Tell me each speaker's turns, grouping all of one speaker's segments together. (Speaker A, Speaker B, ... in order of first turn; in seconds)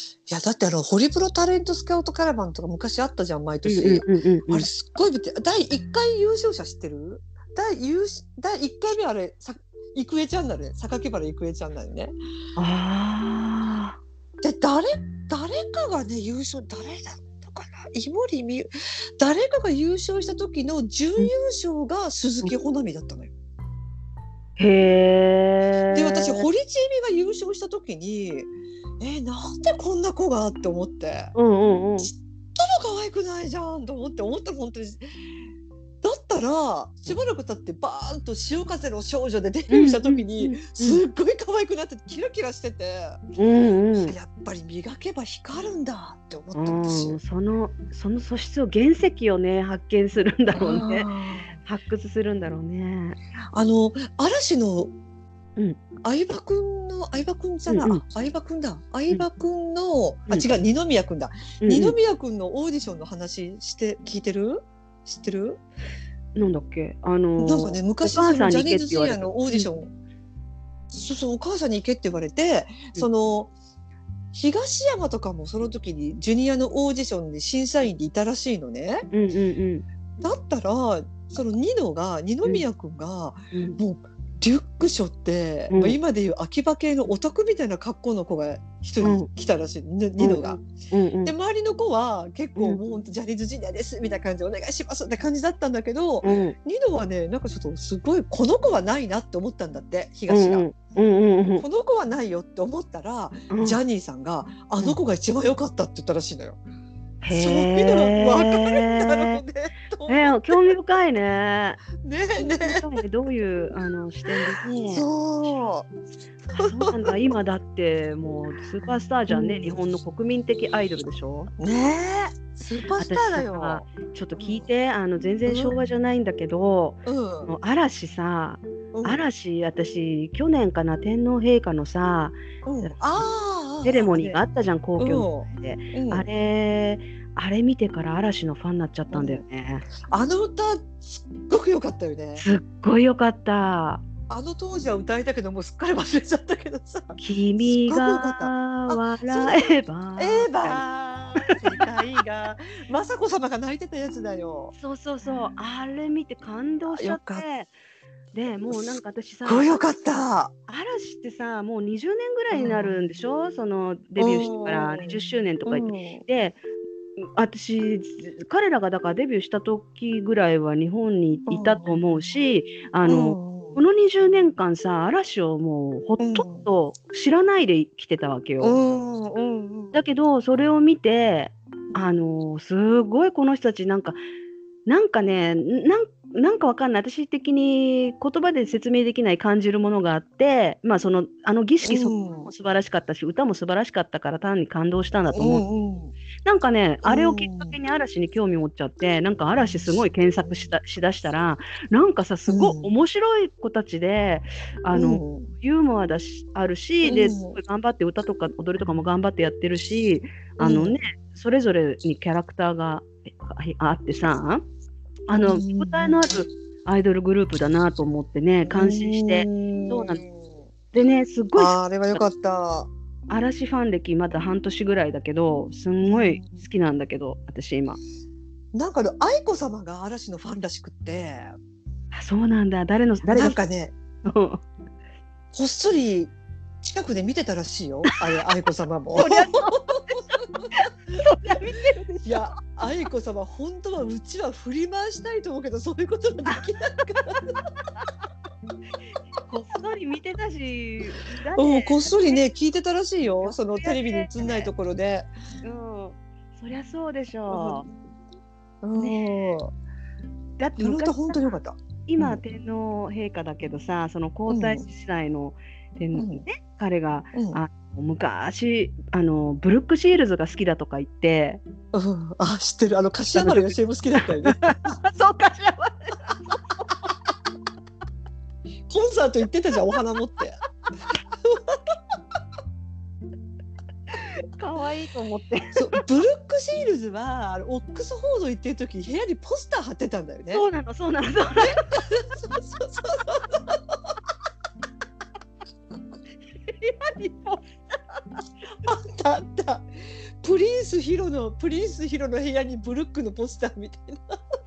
Speaker A: 0.3-12.1, 14.4-23.3, 25.9-28.5, 29.0-31.3, 32.0-35.0, 36.0-43.2, 44.0-47.2, 50.5-51.5, 53.5-54.9, 56.0-65.6, 67.4-69.9, 70.9-73.5, 74.3-79.1, 80.2-90.6, 91.2-100.7, 101.6-106.6, 107.3-110.7, 112.0-112.8, 114.2-115.9, 116.5-117.2, 119.3-119.8, 121.6-124.7, 125.5-125.8, 127.0-127.5, 128.9-129.2, 132.6-134.4, 135.0-136.3, 139.1-139.4, 140.1-142.4, 144.3-154.7, 156.8-157.4, 158.7-160.5, 162.5-162.9, 164.2-166.2, 171.5-172.0, 173.0-173.8, 176.2-176.7, 178.6-180.0, 191.8-192.5, 195.3-196.1, 197.0-197.8, 202.5-202.9, 204.9-205.5, 207.0-207.6, 210.6-211.0, 215.3-216.4, 218.7-220.5, 221.6-222.9, 226.0-226.5, 228.7-231.5, 233.3-233.9, 235.5-240.7, 242.2-247.5, 251.6-255.3, 257.5-257.8, 258.8-259.7, 260.8-262.4, 264.5-264.8, 266.1-266.4, 267.3-267.6, 271.9-274.8, 278.9-280.6, 281.4-281.8, 285.8-290.6, 291.6-294.0, 298.8-299.9, 300.4-304.4
Speaker B: 3.6-4.7, 12.6-14.0, 24.6-26.5, 31.3-32.1, 39.7-41.0, 43.4-44.1, 46.5-53.2, 57.7-58.0, 61.6-62.0, 66.3-69.7, 79.1-79.8, 83.5-83.8, 85.7-86.0, 89.0-89.3, 90.2-91.3, 96.2-96.5, 100.3-101.6, 103.5-103.8, 107.2-109.4, 110.1-111.8, 112.4-115.6, 116.4-121.5, 123.0-133.2, 133.8-139.9, 142.4-144.0, 147.2-150.8, 154.7-157.7, 158.3-159.8, 160.7-166.6, 167.3-178.8, 179.9-184.2, 184.9-195.6, 196.4-214.6, 215.3-220.2, 220.9-222.2, 223.3-228.0, 232.1-233.6, 234.2-234.6, 239.2-242.5, 249.5-252.5, 253.4-254.7, 255.6-257.9, 259.0-259.5, 260.6-261.4, 262.1-271.6, 273.3-277.1, 284.1-286.0, 290.5-291.8, 296.6-298.4